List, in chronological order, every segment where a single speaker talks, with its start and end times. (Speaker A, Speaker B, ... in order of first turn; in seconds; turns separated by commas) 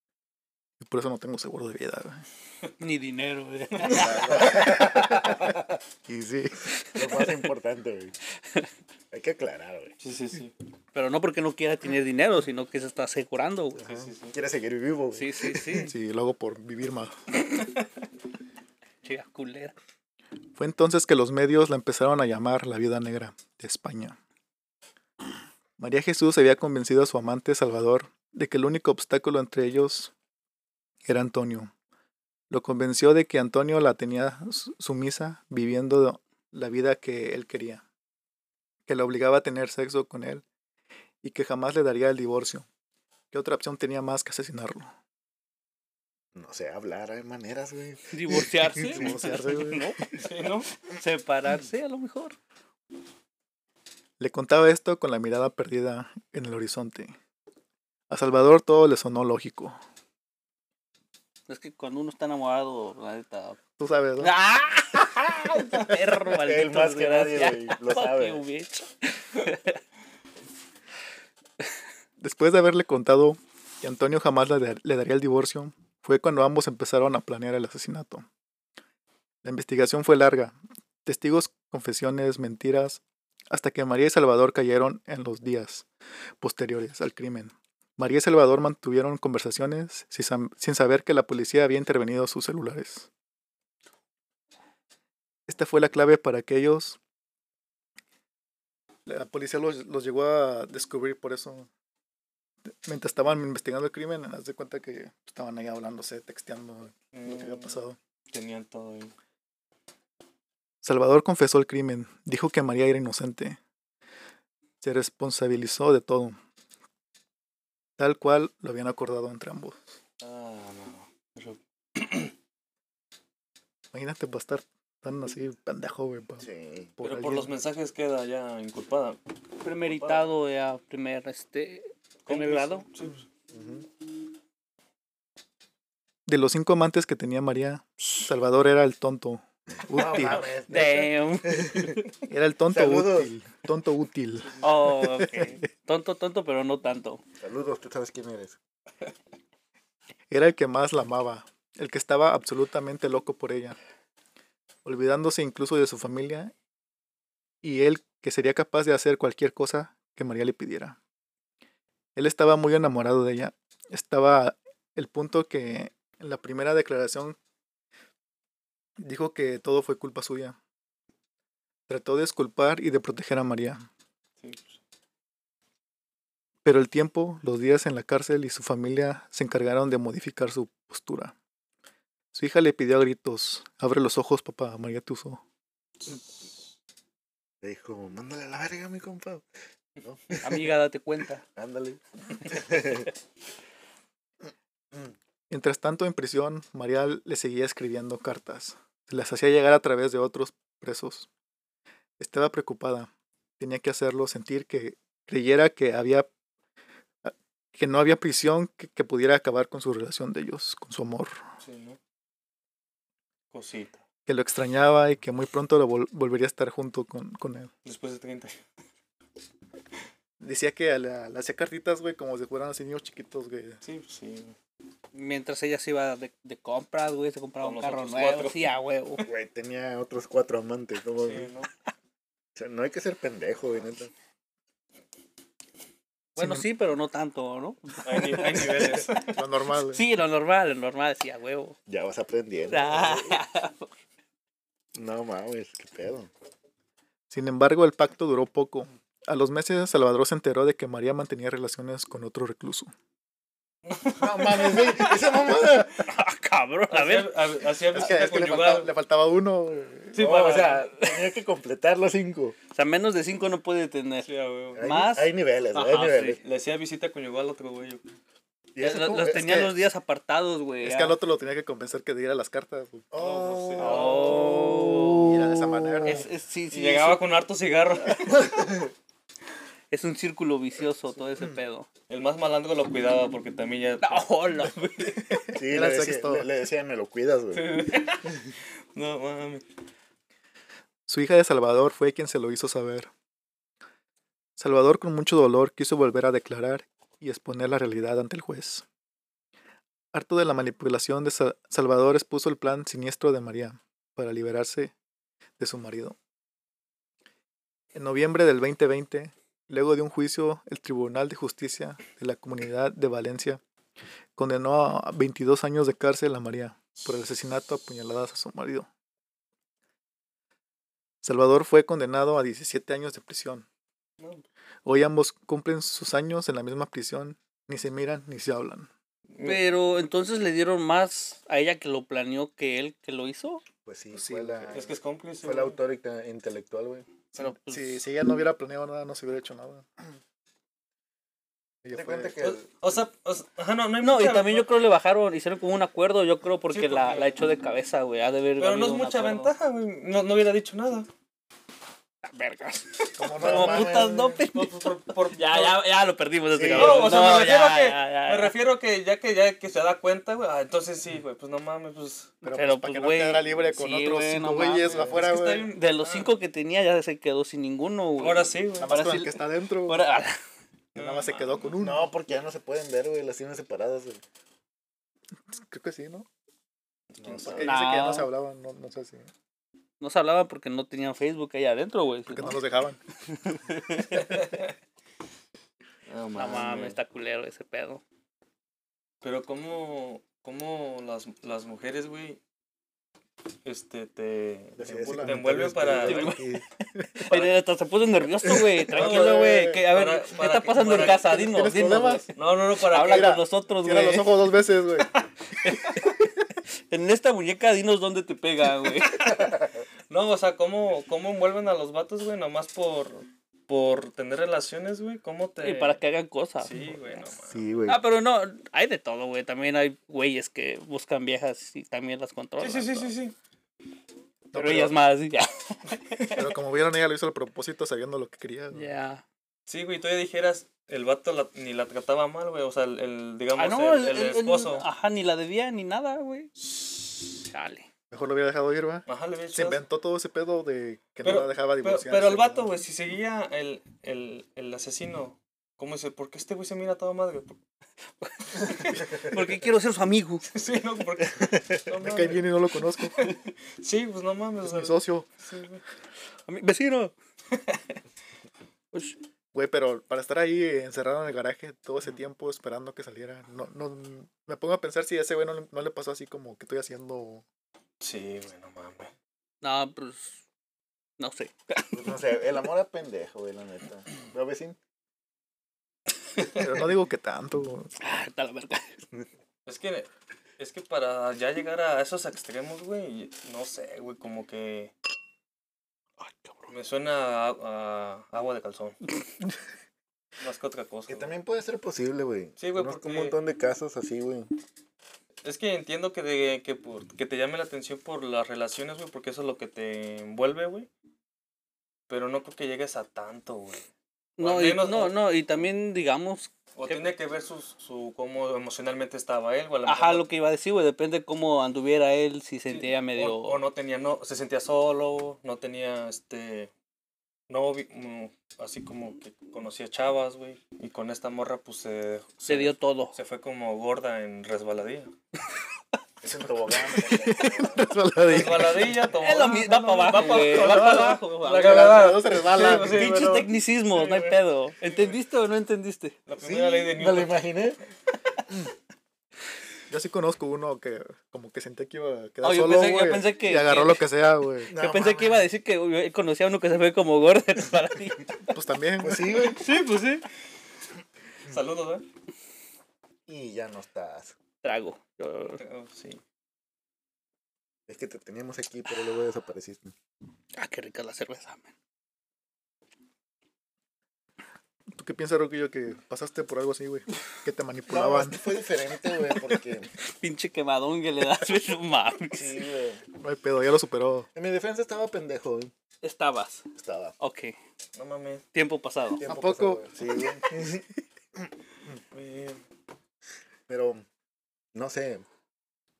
Speaker A: 0.8-2.2, Speaker B: 2.8-4.8, Speaker C: 3.8-5.7, Speaker A: 6.1-6.5, Speaker C: 6.8-8.2, Speaker C: 9.1-9.9, Speaker D: 10.0-10.5, Speaker B: 10.9-13.9, Speaker D: 13.8-14.3, Speaker C: 13.8-15.9, Speaker B: 15.2-15.9, Speaker A: 15.8-17.2, Speaker B: 19.0-19.7, Speaker A: 20.6-24.2, Speaker A: 25.8-30.1, Speaker A: 31.1-31.7, Speaker A: 32.5-37.8, Speaker A: 38.9-40.4, Speaker A: 41.2-42.6, Speaker A: 43.3-44.9, Speaker C: 46.4-49.0, Speaker B: 48.1-50.2, Speaker A: 48.9-50.0, Speaker D: 50.2-50.7, Speaker B: 50.9-52.4, Speaker A: 54.2-57.1, Speaker A: 58.1-59.8, Speaker B: 61.5-63.6, Speaker A: 63.8-64.3, Speaker B: 64.2-69.8, Speaker C: 66.3-68.4, Speaker A: 72.2-78.2, Speaker A: 79.4-85.8, Speaker A: 86.4-93.1, Speaker A: 95.5-97.0, Speaker A: 99.1-101.7, Speaker A: 102.7-108.0, Speaker D: 107.1-109.1, Speaker A: 110.8-113.6, Speaker A: 114.8-116.4, Speaker A: 118.0-120.0, Speaker D: 120.2-122.3, Speaker A: 123.9-126.4, Speaker C: 126.4-126.9, Speaker A: 127.0-127.5, Speaker D: 127.0-129.2, Speaker B: 129.6-132.8, Speaker D: 129.8-130.3, Speaker D: 132.2-133.2, Speaker C: 133.5-133.8, Speaker A: 136.3-140.5, Speaker C: 139.9-142.1, Speaker B: 140.7-142.0, Speaker A: 142.3-145.5, Speaker C: 142.7-143.3, Speaker D: 144.4-145.6, Speaker B: 144.6-147.2, Speaker C: 147.4-148.6, Speaker A: 150.3-153.8, Speaker A: 154.8-156.5, Speaker A: 157.6-161.0, Speaker A: 162.2-167.3, Speaker A: 169.0-170.6, Speaker A: 171.9-173.9, Speaker D: 174.4-174.8, Speaker A: 176.6-181.3, Speaker A: 182.3-185.4, Speaker C: 187.6-189.4, Speaker C: 190.0-190.7, Speaker B: 190.4-191.4, Speaker C: 191.5-193.1, Speaker A: 195.5-201.3, Speaker A: 202.2-206.3, Speaker A: 207.2-211.4, Speaker D: 211.6-212.0, Speaker D: 213.5-214.0, Speaker A: 214.2-217.7, Speaker D: 217.8-218.6, Speaker A: 220.4-223.8, Speaker D: 223.8-224.5, Speaker B: 225.1-229.2, Speaker D: 227.6-228.7, Speaker C: 229.2-231.5, Speaker D: 231.2-231.7, Speaker C: 232.6-234.1, Speaker A: 236.4-236.7, Speaker B: 236.4-239.3, Speaker D: 238.0-239.4, Speaker A: 239.3-240.0, Speaker B: 239.9-241.8, Speaker C: 241.9-243.4, Speaker B: 242.7-243.9, Speaker C: 244.9-246.3, Speaker A: 247.3-252.9, Speaker D: 253.9-254.8, Speaker C: 254.1-256.0, Speaker B: 255.9-257.3, Speaker D: 256.9-258.9, Speaker A: 257.9-260.2, Speaker D: 260.1-261.0, Speaker C: 260.1-262.6, Speaker B: 262.7-264.3, Speaker D: 264.2-264.8, Speaker C: 264.7-266.4, Speaker B: 264.8-266.4, Speaker D: 266.4-268.0, Speaker C: 268.7-269.6, Speaker B: 268.8-271.2, Speaker A: 269.2-269.8, Speaker A: 270.8-273.1, Speaker C: 273.1-276.2, Speaker D: 273.1-274.6, Speaker B: 273.8-275.4, Speaker A: 275.2-276.3, Speaker B: 276.0-277.2, Speaker D: 276.7-278.5, Speaker C: 278.1-278.9, Speaker B: 279.9-281.9, Speaker D: 282.1-284.7, Speaker B: 284.0-285.5, Speaker A: 285.4-286.4, Speaker C: 285.5-288.0, Speaker D: 287.5-288.3, Speaker D: 288.9-289.6, Speaker A: 291.1-293.1, Speaker A: 294.6-298.8, Speaker A: 300.1-304.9, Speaker A: 305.6-306.1, Speaker A: 307.9-313.6, Speaker A: 314.4-318.9, Speaker A: 321.2-323.6, Speaker A: 324.8-328.9, Speaker D: 329.3-329.6, Speaker B: 329.4-333.6, Speaker C: 333.8-337.1, Speaker A: 334.1-334.8, Speaker D: 334.7-335.8, Speaker A: 337.3-339.9, Speaker B: 337.4-338.0, Speaker A: 341.8-342.3, Speaker C: 341.9-342.9, Speaker D: 342.4-344.7, Speaker B: 344.0-349.5, Speaker D: 346.7-347.4, Speaker D: 348.6-351.1, Speaker B: 352.2-358.5, Speaker A: 353.2-354.0, Speaker C: 353.3-354.4, Speaker D: 354.5-355.8, Speaker C: 356.5-357.3, Speaker D: 356.7-362.3, Speaker A: 362.4-365.7, Speaker B: 362.5-370.4, Speaker C: 364.9-365.2, Speaker D: 364.9-366.3, Speaker D: 368.2-368.9, Speaker A: 368.8-370.1, Speaker D: 370.9-371.7, Speaker A: 370.9-372.1, Speaker C: 371.8-374.2, Speaker A: 375.5-376.3, Speaker D: 377.1-377.7, Speaker C: 377.2-377.6, Speaker A: 377.4-379.3, Speaker B: 377.6-378.3, Speaker B: 380.0-382.6, Speaker A: 382.3-383.0, Speaker B: 383.3-384.5, Speaker D: 384.1-384.6, Speaker D: 386.1-387.0, Speaker B: 386.3-388.0, Speaker D: 389.2-392.4, Speaker D: 393.6-396.4, Speaker C: 394.8-396.6, Speaker A: 395.0-395.3, Speaker B: 396.1-396.4, Speaker A: 396.9-397.3, Speaker B: 397.2-404.4, Speaker D: 397.3-397.5, Speaker D: 398.9-401.5, Speaker A: 398.9-399.7, Speaker A: 401.0-402.2, Speaker D: 402.4-403.4, Speaker A: 402.9-405.1, Speaker B: 405.6-406.2, Speaker B: 406.9-409.6, Speaker D: 410.1-416.0, Speaker B: 415.6-417.2, Speaker D: 416.6-417.6, Speaker C: 417.5-418.0, Speaker B: 417.9-423.1, Speaker D: 422.6-423.3, Speaker A: 424.5-424.9, Speaker B: 424.5-426.4, Speaker A: 426.3-428.9, Speaker B: 428.7-429.2, Speaker D: 429.7-434.9, Speaker B: 433.6-436.5, Speaker B: 437.4-437.9, Speaker A: 438.1-442.7, Speaker D: 439.1-439.8, Speaker D: 441.2-447.6, Speaker B: 448.2-450.5, Speaker D: 448.6-449.4, Speaker D: 450.5-452.5, Speaker A: 452.0-453.2, Speaker D: 453.1-455.8, Speaker A: 454.6-455.3, Speaker B: 456.5-457.1, Speaker A: 459.5-467.4, Speaker D: 468.0-469.1, Speaker B: 469.6-470.4, Speaker B: 471.2-472.0, Speaker C: 471.9-474.8, Speaker A: 476.5-477.9, Speaker B: 478.0-478.9, Speaker D: 479.6-484.9, Speaker D: 486.7-489.0, Speaker D: 490.4-491.3, Speaker C: 491.1-494.5, Speaker D: 492.6-493.4, Speaker D: 495.4-500.9, Speaker D: 502.1-503.9, Speaker B: 504.4-507.1, Speaker D: 504.4-505.1, Speaker D: 506.7-510.2, Speaker B: 509.9-513.6, Speaker D: 512.7-516.7, Speaker D: 517.5-525.1, Speaker B: 522.5-523.1, Speaker C: 526.2-527.9, Speaker A: 527.1-529.0, Speaker D: 528.2-535.1, Speaker B: 529.1-536.2, Speaker A: 530.1-533.1, Speaker D: 536.3-537.4, Speaker C: 536.4-537.8, Speaker A: 539.9-544.7, Speaker B: 542.4-544.0, Speaker C: 544.6-545.5, Speaker B: 544.7-548.4, Speaker A: 548.5-549.5, Speaker C: 549.0-549.6, Speaker B: 549.5-550.2, Speaker D: 551.4-552.0, Speaker C: 553.3-554.4, Speaker B: 554.6-555.6, Speaker D: 555.6-556.2, Speaker C: 557.9-559.9, Speaker B: 560.5-561.7, Speaker A: 564.9-568.4, Speaker C: 567.9-569.9, Speaker B: 570.0-572.6, Speaker C: 572.3-573.0, Speaker A: 573.2-574.3, Speaker C: 574.3-575.7, Speaker B: 576.0-576.7, Speaker C: 576.7-577.1, Speaker B: 577.2-577.5, Speaker D: 577.9-578.4, Speaker B: 578.5-579.2, Speaker C: 579.1-580.8, Speaker A: 579.2-580.7, Speaker D: 582.1-582.6, Speaker C: 583.7-584.0, Speaker C: 584.7-585.2